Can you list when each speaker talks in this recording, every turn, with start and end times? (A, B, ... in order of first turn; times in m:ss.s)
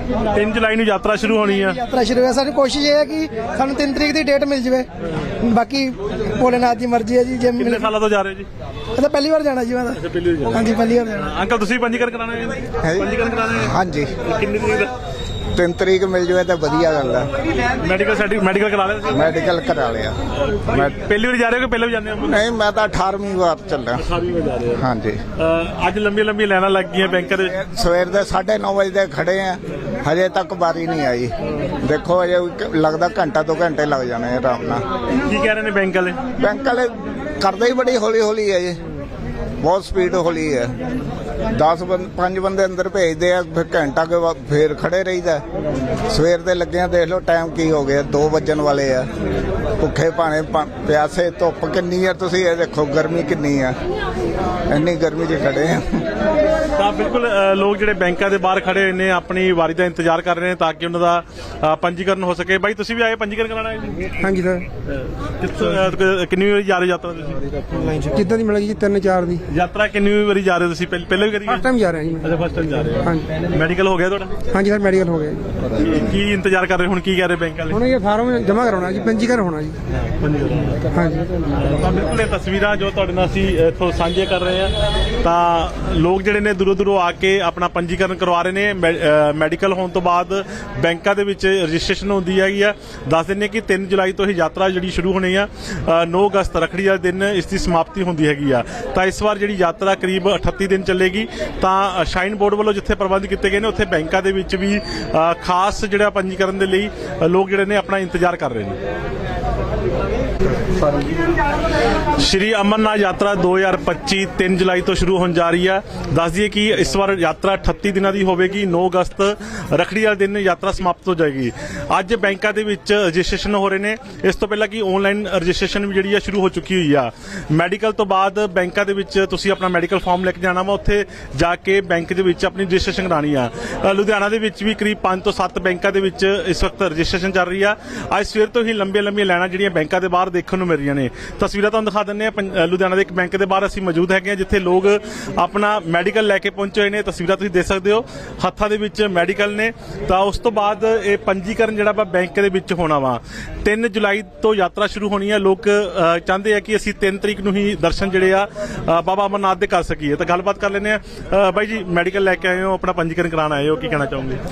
0:00.3-0:01.8 A
0:01.8-0:04.8 B
0:05.4-0:07.9 B
0:07.5-0:08.5 A
0:09.0-0:10.0 B
0:09.9-0:14.9 A
0:10.5-0:11.2 B
0:12.8-0:14.1 C
0:15.5-0:17.3 C
0:17.8-0:19.3 A
0:19.1-0:20.1 C
0:20.5-0:22.4 A
0:20.7-0:21.0 C
0:22.2-0:24.0 C
0:24.0-0:24.8 A
0:24.7-0:25.2 C
0:25.4-0:27.5 A
0:27.6-0:34.8 C
0:35.2-0:36.2 A
0:36.4-0:36.9 C
0:37.4-0:38.8 C
0:39.6-0:40.8 C
0:41.5-0:45.4 C
0:46.1-0:49.1 C
0:49.8-0:53.7 C
0:54.7-0:55.9 C
0:56.8-1:04.1 A
1:04.2-1:04.6 D
1:04.9-1:07.4 A
1:08.1-1:09.4 D
1:09.5-1:14.4 A
1:11.5-1:12.3 D
1:14.5-1:15.4 D
1:15.8-1:17.8 A
1:17.7-1:19.7 D
1:20.2-1:20.8 A
1:20.9-1:21.2 D
1:21.6-1:48.8 A
1:52.2-2:44.4 A